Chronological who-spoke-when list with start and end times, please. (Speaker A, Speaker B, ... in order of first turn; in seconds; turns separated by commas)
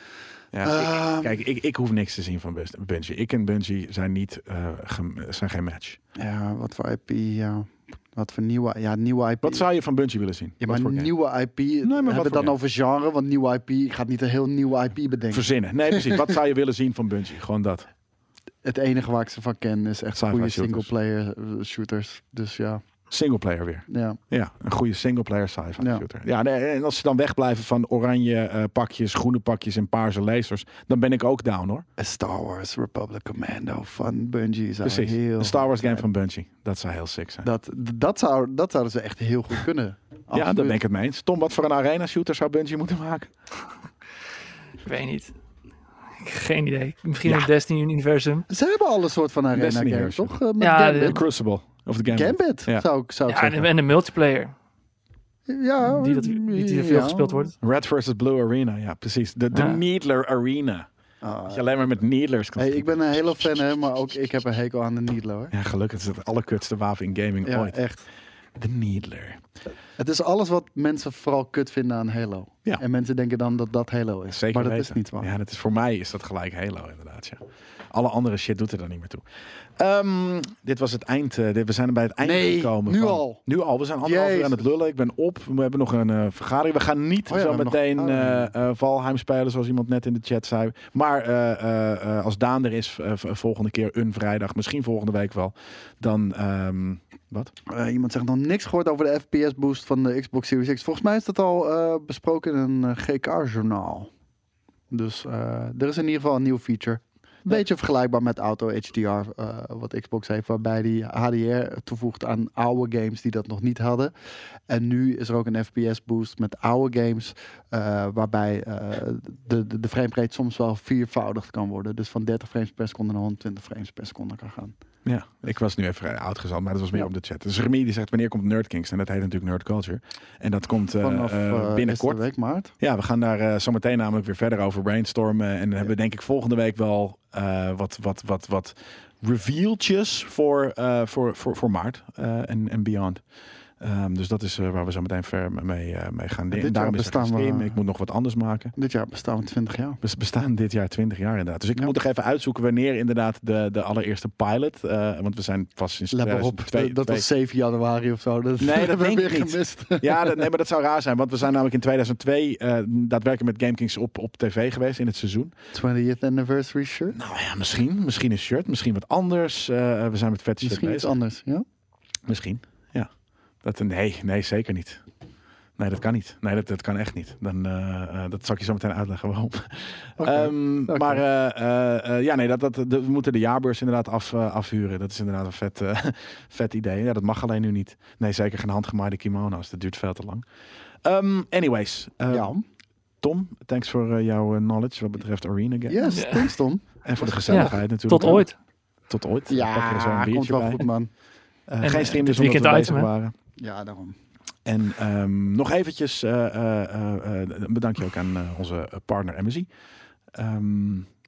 Speaker A: 0.5-6.0, Speaker B: 0.6-1.4, Speaker B: 6.2-9.7, Speaker A: 9.4-11.1, Speaker B: 10.6-16.4, Speaker A: 11.8-12.5, Speaker A: 15.3-17.9, Speaker B: 18.6-22.8, Speaker A: 20.1-20.9, Speaker A: 23.1-31.9, Speaker B: 23.9-24.2, Speaker B: 25.8-26.1, Speaker B: 32.0-36.0, Speaker A: 34.8-37.5, Speaker B: 37.4-40.8, Speaker A: 40.3-43.3, Speaker C: 44.8-45.3, Speaker C: 46.2-48.5, Speaker B: 48.5-51.2, Speaker A: 49.5-50.3, Speaker C: 50.6-51.2, Speaker A: 51.0-52.9, Speaker B: 52.1-53.7, Speaker C: 53.3-54.5, Speaker B: 55.5-57.5, Speaker C: 55.8-57.5, Speaker A: 57.6-60.9, Speaker C: 59.5-59.8, Speaker B: 61.2-61.7, Speaker A: 61.5-64.2, Speaker B: 62.6-65.5, Speaker A: 65.5-67.8, Speaker B: 67.5-68.0, Speaker A: 68.6-69.4, Speaker B: 70.0-75.3, Speaker A: 74.3-97.5, Speaker B: 82.2-83.4, Speaker B: 84.0-84.7, Speaker B: 87.3-88.5, Speaker B: 97.7-104.1, Speaker B: 104.9-114.1, Speaker B: 114.7-124.8, Speaker A: 125.0-132.2, Speaker B: 131.0-132.7, Speaker A: 132.8-143.2, Speaker A: 143.8-148.7, Speaker B: 146.5-147.8, Speaker B: 148.8-150.0, Speaker A: 150.0-157.3, Speaker B: 156.1-160.5, Speaker A: 158.6-165.5, Speaker B: 165.7-167.2, Speaker A: 167.1-171.1, Speaker B: 170.6-171.7, Speaker A: 172.3-173.1, Speaker A: 173.6-175.0, Speaker A: 175.8-190.4, Speaker B: 180.2-181.2, Speaker A: 191.0-192.5, Speaker B: 192.3-192.6, Speaker A: 193.2-196.0, Speaker B: 195.9-198.4, Speaker C: 196.1-196.5, Speaker A: 197.0-198.5, Speaker C: 197.5-198.6, Speaker A: 199.1-200.9, Speaker B: 199.5-201.1, Speaker A: 201.7-203.3, Speaker C: 201.8-203.1, Speaker B: 203.6-204.2, Speaker A: 204.7-209.7, Speaker A: 210.3-211.1